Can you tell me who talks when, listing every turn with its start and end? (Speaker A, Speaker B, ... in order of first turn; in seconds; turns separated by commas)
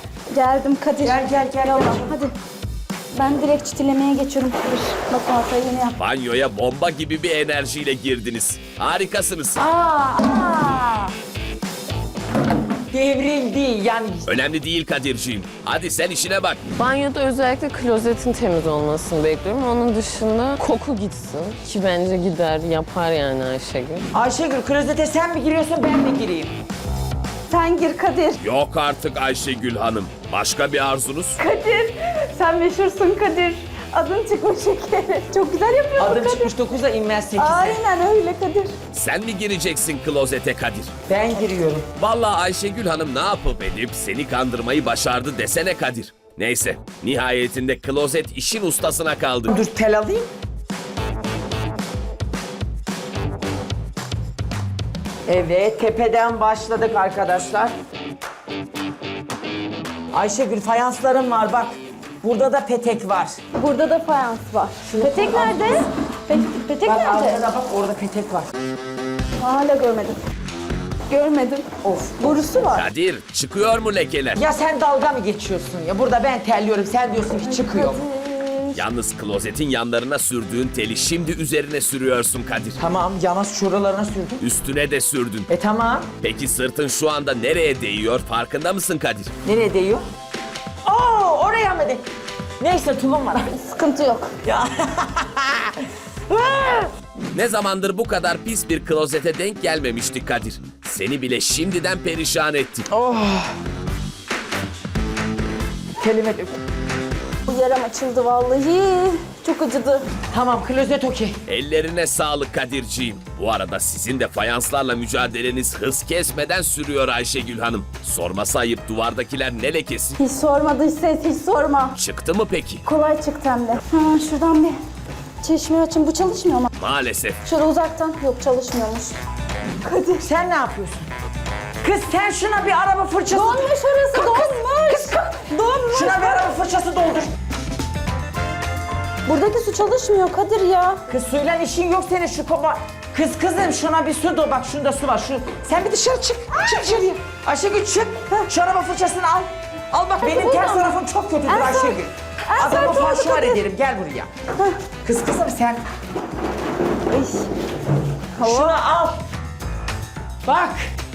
Speaker A: 0.3-2.3, Speaker B: 1.0-2.1, Speaker A: 3.1-6.0, Speaker C: 6.0-9.6, Speaker B: 9.6-11.1, Speaker B: 12.9-14.3, Speaker C: 14.2-16.7, Speaker D: 16.8-24.0, Speaker B: 24.1-26.5, Speaker A: 27.5-28.4, Speaker C: 28.4-31.4, Speaker A: 31.4-36.5, Speaker B: 36.0-37.8, Speaker A: 37.4-38.7, Speaker C: 38.9-40.9, Speaker B: 41.1-41.9, Speaker C: 42.0-49.5, Speaker B: 49.5-50.3, Speaker B: 55.3-57.7, Speaker B: 60.1-63.4, Speaker A: 63.5-67.5, Speaker B: 64.8-65.8, Speaker B: 66.8-68.5, Speaker A: 69.4-70.2, Speaker A: 71.1-71.7, Speaker B: 71.8-72.6, Speaker A: 72.2-72.9, Speaker C: 72.7-74.4, Speaker B: 74.3-78.0, Speaker A: 77.4-78.8, Speaker C: 78.7-82.8, Speaker B: 82.8-84.4, Speaker C: 84.4-85.5, Speaker B: 85.5-86.1, Speaker C: 86.2-89.3, Speaker B: 89.4-90.0, Speaker B: 90.8-92.0, Speaker B: 92.6-93.6, Speaker A: 93.5-94.3, Speaker B: 94.4-95.7, Speaker B: 96.3-96.9, Speaker C: 97.3-102.8, Speaker B: 103.0-103.5, Speaker B: 106.0-106.5, Speaker A: 107.5-110.1, Speaker B: 110.3-111.4, Speaker C: 111.5-120.2, Speaker A: 120.2-121.9, Speaker C: 121.9-122.8, Speaker A: 122.8-124.8, Speaker A: 125.4-126.7, Speaker C: 126.8-127.4, Speaker A: 127.4-129.1, Speaker A: 129.8-130.2, Speaker B: 130.2-131.1, Speaker B: 131.8-135.2, Speaker A: 133.3-136.5, Speaker B: 135.9-137.3, Speaker A: 139.2-141.0, Speaker B: 141.1-154.3, Speaker A: 146.6-147.0, Speaker A: 150.2-153.6, Speaker B: 155.0-155.8, Speaker A: 157.1-157.5, Speaker A: 158.4-158.8, Speaker B: 158.4-159.2, Speaker B: 160.4-160.9